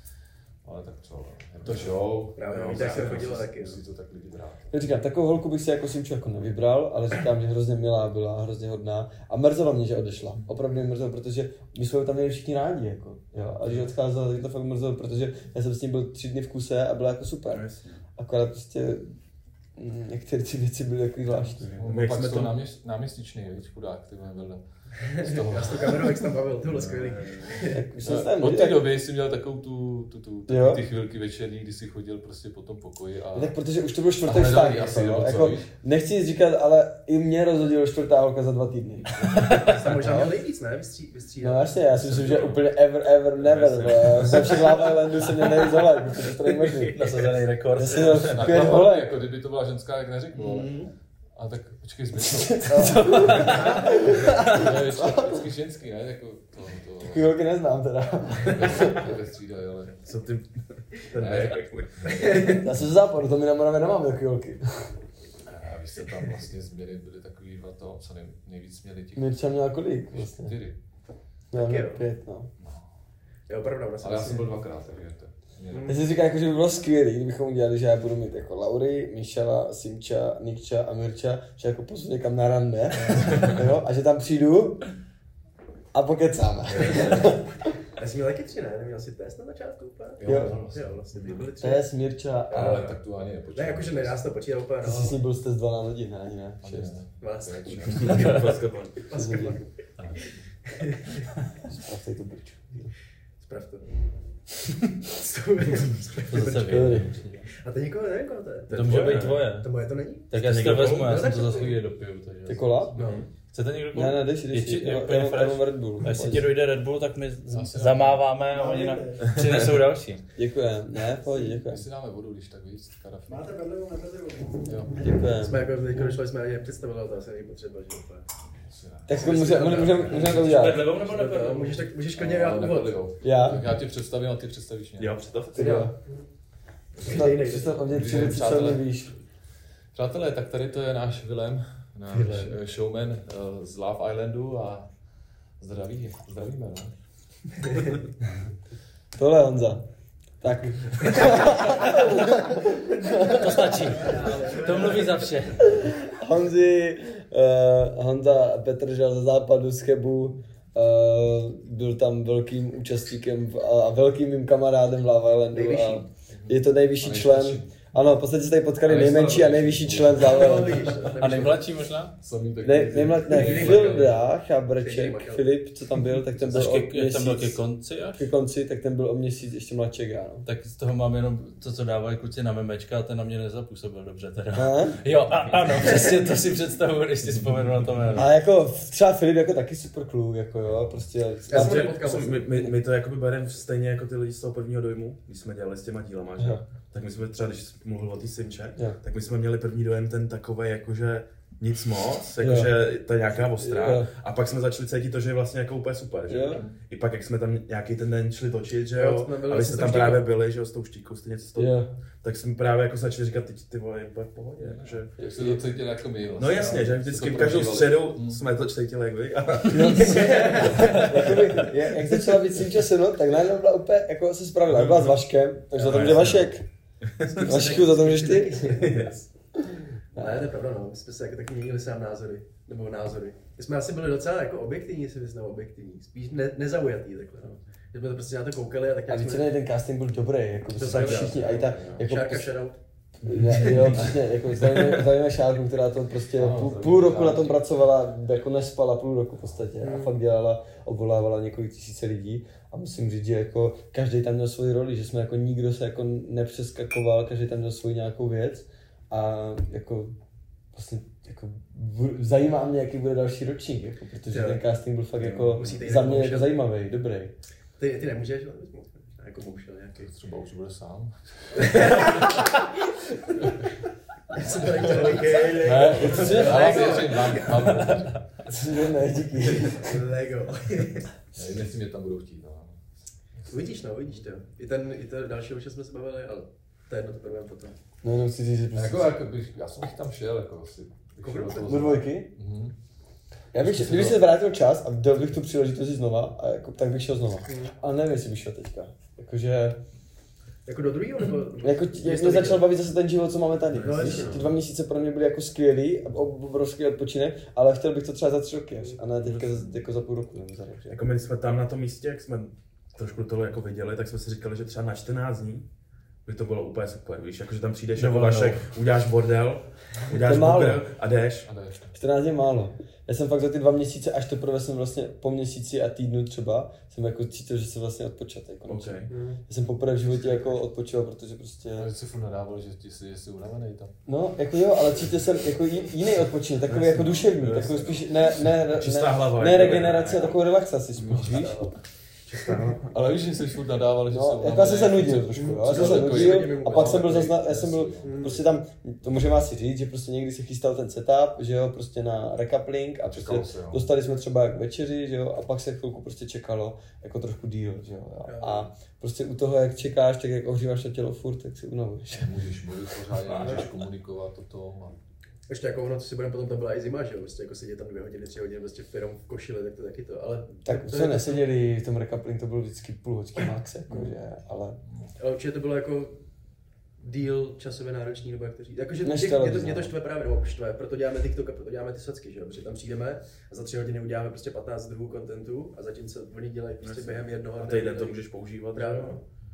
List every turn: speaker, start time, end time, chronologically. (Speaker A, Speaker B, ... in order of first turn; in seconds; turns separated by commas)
Speaker A: 0.6-4.7, Speaker B: 1.6-3.4, Speaker C: 2.3-3.8, Speaker D: 4.7-17.6, Speaker B: 17.5-18.0, Speaker D: 18.2-19.1, Speaker D: 19.8-21.9, Speaker A: 21.7-26.3, Speaker B: 21.8-22.6, Speaker C: 25.0-27.8, Speaker B: 26.8-27.7, Speaker D: 27.7-28.9, Speaker A: 28.0-33.5, Speaker D: 30.5-30.8, Speaker D: 33.3-40.3, Speaker A: 34.2-35.7, Speaker C: 39.5-41.9, Speaker D: 41.4-47.1, Speaker B: 43.4-44.5, Speaker A: 43.7-44.4, Speaker E: 46.9-48.6, Speaker D: 47.7-49.2, Speaker A: 48.3-50.8, Speaker C: 50.4-50.9, Speaker A: 51.3-57.3, Speaker D: 52.5-55.4, Speaker E: 52.8-53.9, Speaker D: 57.0-59.1, Speaker A: 58.4-60.0, Speaker B: 60.0-62.6, Speaker A: 61.1-62.2, Speaker C: 62.0-62.6, Speaker D: 62.5-64.9, Speaker A: 65.4-69.4, Speaker D: 69.2-70.5, Speaker A: 70.1-70.8, Speaker D: 71.5-72.5, Speaker C: 71.5-72.0, Speaker C: 73.5-74.5, Speaker A: 74.0-76.0, Speaker C: 75.7-76.0, Speaker D: 75.8-84.8, Speaker D: 85.9-87.5, Speaker C: 88.0-91.9, Speaker A: 90.2-91.4, Speaker D: 90.2-90.6, Speaker D: 91.6-92.9, Speaker A: 92.5-94.3, Speaker C: 92.6-92.8, Speaker C: 93.5-95.2, Speaker D: 94.8-97.0, Speaker A: 96.6-98.4, Speaker C: 97.2-98.4, Speaker B: 97.9-99.0, Speaker C: 99.0-101.3, Speaker D: 99.1-99.6, Speaker A: 100.0-100.5, Speaker D: 101.6-102.9, Speaker C: 103.4-103.8, Speaker C: 105.0-111.8, Speaker E: 106.3-107.5, Speaker D: 106.7-107.2, Speaker E: 108.7-109.7, Speaker B: 108.7-109.4, Speaker E: 110.3-113.0, Speaker B: 110.3-111.2, Speaker D: 112.5-113.0, Speaker C: 113.0-113.2, Speaker B: 113.0-113.3, Speaker E: 113.5-120.2, Speaker D: 113.9-116.5, Speaker A: 117.5-118.3, Speaker F: 118.5-119.3, Speaker B: 119.3-119.6, Speaker D: 120.3-121.8, Speaker A: 121.6-123.5, Speaker F: 123.3-125.1, Speaker A: 124.7-125.0, Speaker D: 125.0-125.7, Speaker C: 125.4-128.3, Speaker A: 128.5-130.4, Speaker D: 129.1-130.8, Speaker C: 129.1-133.0, Speaker E: 130.2-131.9, Speaker A: 132.1-135.2, Speaker D: 133.2-133.7, Speaker B: 135.0-135.8, Speaker D: 135.5-135.9, Speaker C: 135.5-135.9, Speaker C: 137.0-137.8, Speaker D: 137.0-139.1, Speaker A: 137.8-138.9, Speaker A: 139.9-144.9, Speaker A: 145.6-146.9, Speaker C: 147.7-147.9, Speaker D: 149.1-149.9, Speaker D: 150.4-153.7, Speaker E: 153.3-155.7, Speaker C: 153.9-155.2, Speaker D: 155.6-170.9, Speaker C: 165.5-166.1, Speaker A: 166.3-167.8, Speaker A: 168.8-171.2, Speaker C: 170.2-171.7, Speaker E: 171.2-172.1, Speaker A: 172.2-174.2, Speaker D: 172.6-177.6, Speaker C: 173.3-174.2, Speaker C: 174.8-175.5, Speaker A: 176.4-176.7, Speaker E: 176.5-178.3, Speaker D: 178.1-180.5, Speaker E: 180.4-188.3, Speaker D: 184.5-185.0, Speaker D: 188.1-192.0, Speaker C: 191.5-192.6, Speaker B: 191.5-215.1, Speaker D: 196.4-196.6, Speaker D: 202.4-202.8, Speaker D: 203.4-204.1, Speaker D: 206.3-206.6, Speaker C: 208.9-210.3, Speaker D: 211.6-211.9, Speaker A: 214.6-218.4, Speaker D: 215.2-215.6, Speaker B: 216.3-221.4, Speaker D: 219.7-226.6, Speaker C: 220.0-221.2, Speaker B: 224.7-225.1, Speaker B: 225.8-226.1, Speaker A: 225.9-226.5, Speaker C: 227.2-229.1, Speaker D: 227.3-228.9, Speaker B: 228.7-229.2, Speaker D: 229.6-230.5, Speaker C: 230.1-239.5, Speaker D: 239.1-242.5, Speaker C: 240.7-242.8, Speaker A: 240.9-242.0, Speaker D: 243.2-260.1, Speaker A: 243.2-244.2, Speaker A: 246.3-247.6, Speaker C: 249.8-250.1, Speaker D: 260.7-267.3, Speaker C: 264.3-264.6, Speaker B: 265.2-266.1, Speaker C: 265.6-266.6, Speaker C: 267.8-270.1, Speaker A: 270.0-272.4, Speaker C: 271.5-272.5, Speaker C: 274.3-277.7, Speaker A: 274.5-275.0, Speaker B: 274.9-276.3, Speaker A: 275.5-278.3, Speaker D: 276.0-277.0, Speaker D: 278.5-280.0, Speaker C: 279.6-281.1, Speaker A: 281.3-282.8, Speaker C: 283.5-287.8, Speaker D: 288.0-289.2, Speaker A: 288.7-292.7, Speaker C: 291.2-291.8, Speaker D: 291.6-292.3, Speaker D: 293.5-299.8, Speaker A: 293.6-294.2, Speaker C: 297.5-297.7, Speaker C: 300.6-302.7, Speaker D: 301.6-311.0, Speaker C: 303.8-304.5, Speaker B: 304.0-304.5, Speaker B: 309.2-309.6, Speaker B: 310.9-315.6, Speaker B: 316.2-321.5, Speaker E: 318.0-318.6, Speaker D: 320.1-320.9, Speaker A: 321.4-321.9, Speaker D: 321.9-331.9, Speaker B: 328.7-329.1, Speaker C: 329.1-329.4, Speaker A: 331.7-333.9, Speaker D: 334.1-341.7, Speaker B: 336.7-338.1, Speaker A: 337.1-337.8, Speaker B: 338.7-340.4, Speaker B: 340.9-341.4, Speaker B: 342.3-342.9, Speaker A: 342.8-348.5, Speaker D: 344.1-362.4, Speaker C: 345.3-347.1, Speaker C: 348.0-348.4, Speaker A: 353.1-353.9, Speaker C: 358.2-358.7, Speaker A: 362.1-364.9, Speaker C: 365.5-371.4, Speaker D: 370.6-374.8, Speaker C: 375.2-376.2, Speaker C: 377.0-388.2, Speaker D: 379.0-379.9, Speaker B: 386.8-389.2, Speaker C: 388.7-389.2